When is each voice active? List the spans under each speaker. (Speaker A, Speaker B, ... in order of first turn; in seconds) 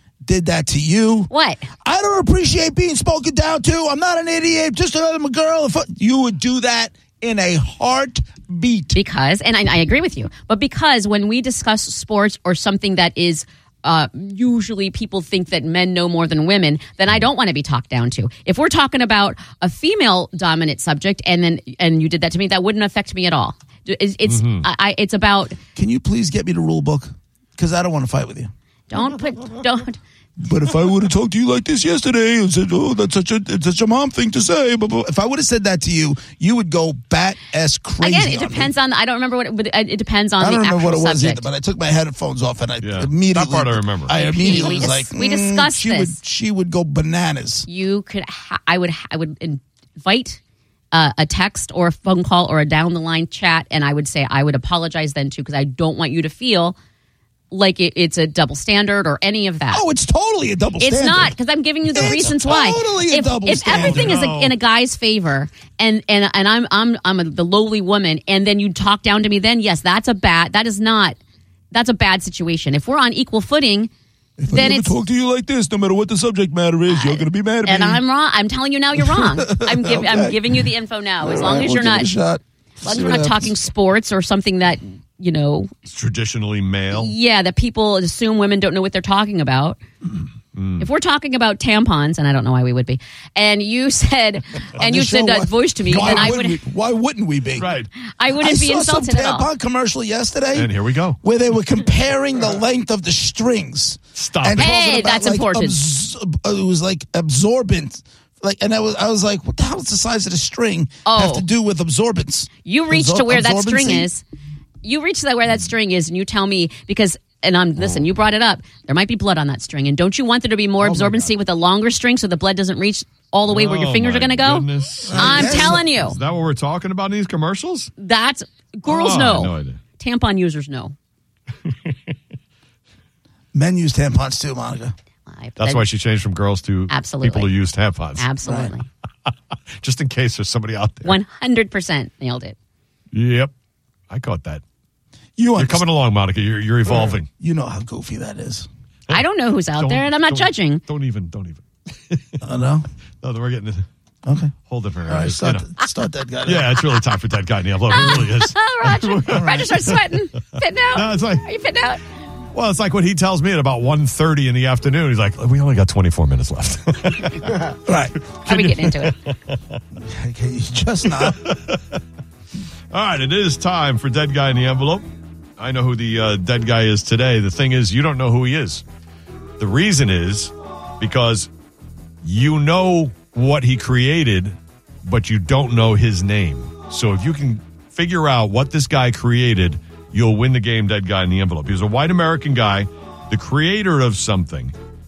Speaker A: 0.2-1.3, 1.8-9.0, 25.7-28.5, 30.4-38.7, 40.4-47.6, 59.7-61.3, 61.9-64.1, 74.4-78.0, 79.0-80.6, 81.2-83.5, 94.8-97.7, 98.4-114.1, 125.1-125.8, 133.5-134.9, 138.4-138.7, 145.4-145.8, 146.9-148.7, 152.4-152.8, 154.2-154.5, 155.1-156.7, 159.2-159.7, 167.8-168.1, 170.0-171.4
Speaker B: 1.3-1.7, 8.9-25.6, 28.9-30.0, 38.0-41.4, 44.1-46.1, 47.6-50.4, 50.9-56.8, 57.5-59.8, 60.8-71.2, 71.7-73.9, 74.5-75.0, 76.8-82.1, 82.8-85.7, 86.9-89.8, 90.8-96.6, 98.0-99.5, 104.5-105.8, 111.0-111.5, 112.6-114.2, 114.8-126.2, 128.0-130.9, 135.3-135.8, 136.9-137.5, 138.2-138.9, 141.0-142.5, 149.1-150.8, 157.9-162.0, 168.4-169.1
Speaker C: 24.2-24.7, 42.8-44.8, 62.0-62.3, 63.6-64.5, 85.9-87.1, 90.5-90.9, 95.8-96.4, 97.6-97.9, 100.5-101.2, 104.2-104.7, 117.8-118.2, 120.8-121.3, 123.5-127.9, 128.8-129.8, 131.7-131.9, 135.6-138.3, 139.3-141.2, 143.1-143.5, 144.1-144.6, 145.6-147.3, 149.1-152.4, 153.2-153.8, 154.7-155.7, 156.4-160.2, 160.9-161.5, 162.5-169.8, 171.0-172.0, 172.9-178.8, 179.6-181.5, 182.2-194.7